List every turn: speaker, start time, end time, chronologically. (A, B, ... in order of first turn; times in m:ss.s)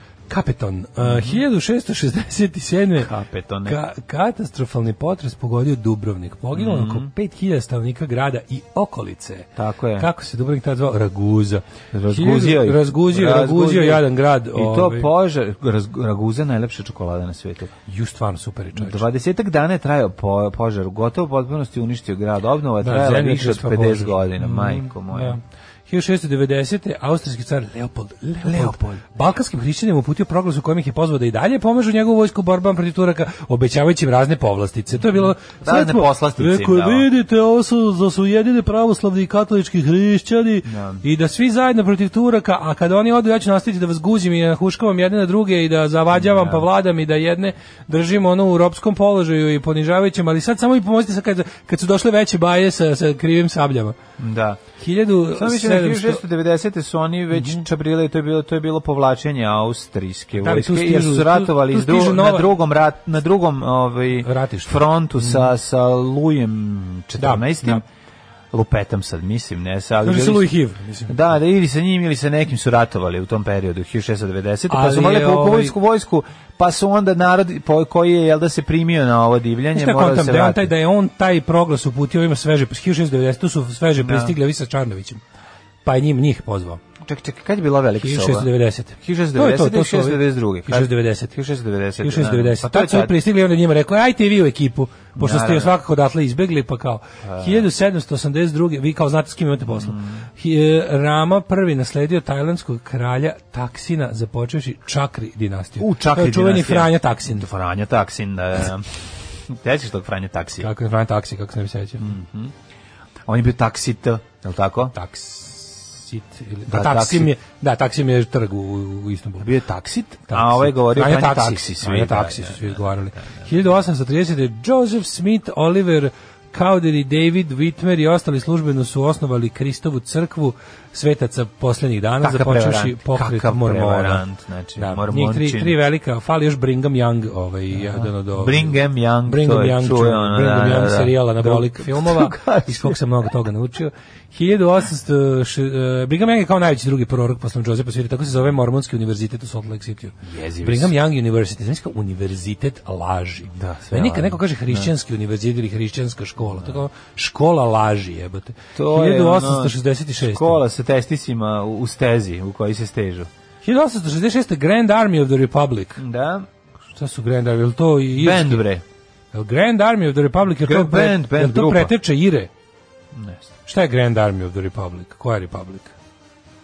0:00.3-0:03.1 A
0:01.0-0:01.4 B
0:03.0-0:03.8 B
0:03.6-0:15.1 A
0:06.5-0:07.1 B
0:09.6-0:10.1 B
0:11.9-0:17.7 B
0:17.9-0:19.0 A
0:18.8-0:25.4 B
0:22.8-0:54.0 A
0:28.4-0:29.0 B
0:35.0-0:37.1 B
0:40.7-0:41.0 B
0:46.1-0:46.6 B
0:54.2-0:54.6 B
0:54.8-0:56.2 A
0:55.3-1:07.8 B
0:57.3-0:57.7 A
1:00.4-1:02.5 A
1:04.2-1:05.5 A
1:07.2-1:07.8 A
1:08.5-1:10.5 B
1:10.0-1:11.2 A
1:11.1-1:20.7 B
1:14.7-1:15.8 A
1:19.7-1:25.2 A
1:24.0-1:24.3 B
1:25.8-1:26.8 A
1:27.0-1:33.1 B
1:28.0-1:31.4 A
1:32.0-1:47.4 A
1:35.1-1:35.8 B
1:37.2-1:37.7 B
1:39.7-1:40.3 B
1:45.8-1:50.7 B
1:50.6-1:52.0 A
1:52.0-1:52.5 B
1:53.3-1:55.0 B
1:55.0-1:59.5 A
1:56.7-1:57.3 B
1:59.4-2:03.5 B
2:00.3-2:14.2 A
2:12.2-2:15.8 B
2:14.8-2:40.6 A
2:17.7-2:23.0 B
2:30.2-2:30.9 B
2:33.5-2:34.9 B
2:36.4-2:36.8 B
2:38.8-2:43.3 B
2:43.6-2:46.0 A
2:46.0-2:46.5 B
2:47.0-2:48.6 A
2:48.1-2:48.8 B
2:49.3-2:52.5 A
2:50.6-2:51.9 B
2:53.1-2:53.5 B
2:53.7-2:55.9 A